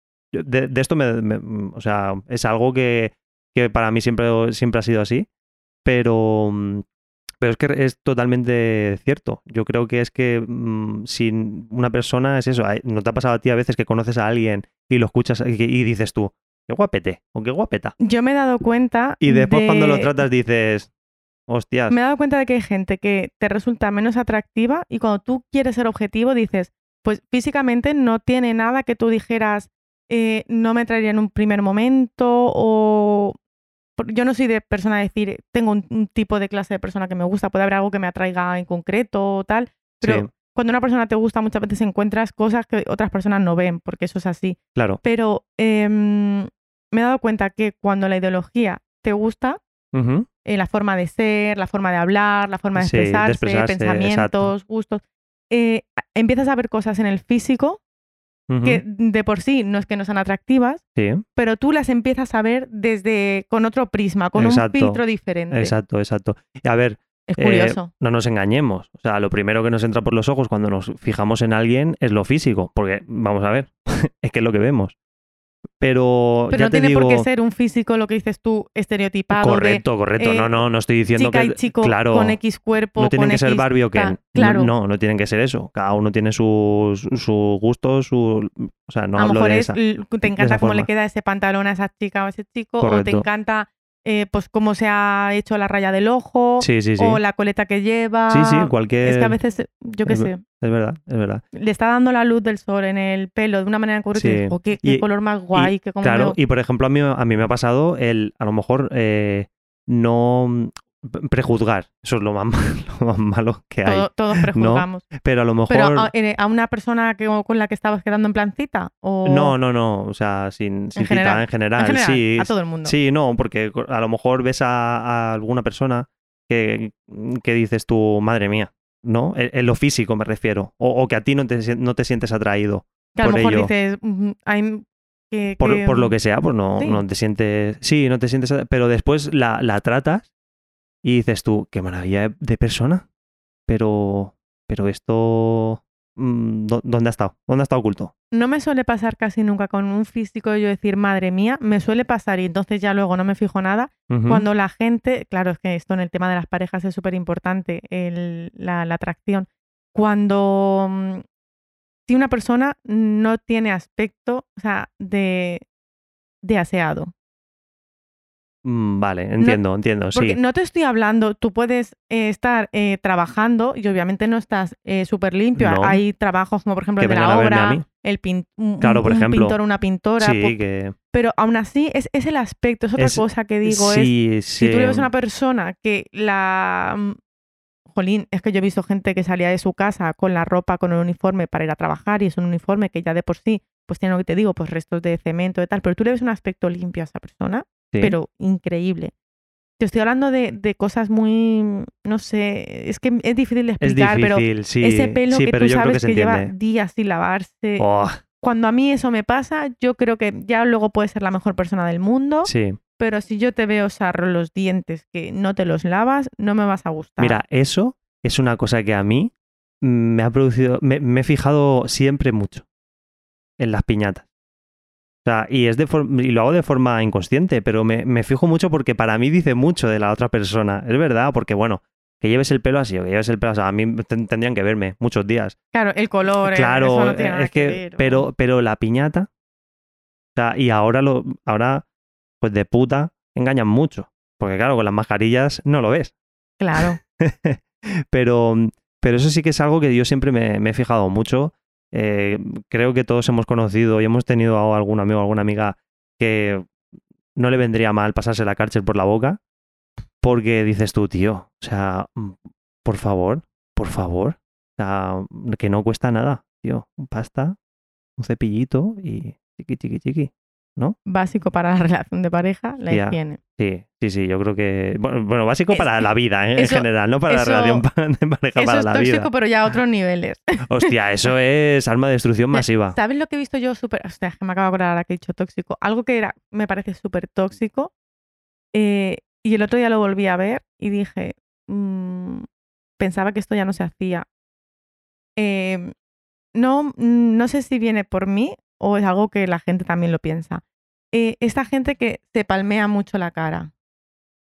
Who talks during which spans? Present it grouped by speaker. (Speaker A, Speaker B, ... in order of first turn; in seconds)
Speaker A: 0.3-5.3, 5.8-6.8, 7.4-17.9, 19.2-20.9, 21.5-21.9, 40.0-40.3, 44.8-45.0, 49.9-50.3, 52.8-54.5, 58.5-58.8, 61.0-61.2, 64.4-75.0, 75.8-77.3, 79.3-82.4, 83.0-90.9, 92.8-93.2, 96.6-97.2, 98.3-99.4, 100.1-101.4, 104.2-116.1, 119.2-133.7, 135.6-140.3, 141.0-143.1, 143.7-148.1, 154.1-154.5, 168.6-170.4, 175.6-176.0, 177.0-177.8, 178.8-179.6, 180.2-180.9, 183.0-185.1, 203.8-206.5, 207.8-208.2, 212.4-212.8, 217.2-222.7, 223.6-224.3, 225.2-235.6, 236.4-239.3, 240.3-241.8, 242.4-246.1, 246.8-256.7, 257.4-259.4, 260.2-267.6, 268.2-271.0, 272.9-279.3, 280.7-283.0
Speaker B: 18.0-20.1, 21.9-33.4, 34.0-49.6, 50.5-57.8, 58.6-60.8, 61.4-65.8, 67.3-67.9, 76.5-80.6, 81.2-84.7, 89.2-100.4, 101.5-106.4, 113.8-115.1, 115.7-119.5, 121.0-123.0, 133.2-136.1, 136.8-137.0, 148.3-161.2, 162.1-165.7, 166.4-167.1, 170.1-180.6, 181.1-187.2, 187.9-199.1, 199.8-207.9, 208.4-217.4, 235.7-238.3, 246.6-247.0, 271.1-273.4, 275.7-277.9, 278.6-280.9, 282.5-287.9, 288.7-292.5, 293.0-294.3, 295.4-295.9, 296.6-303.7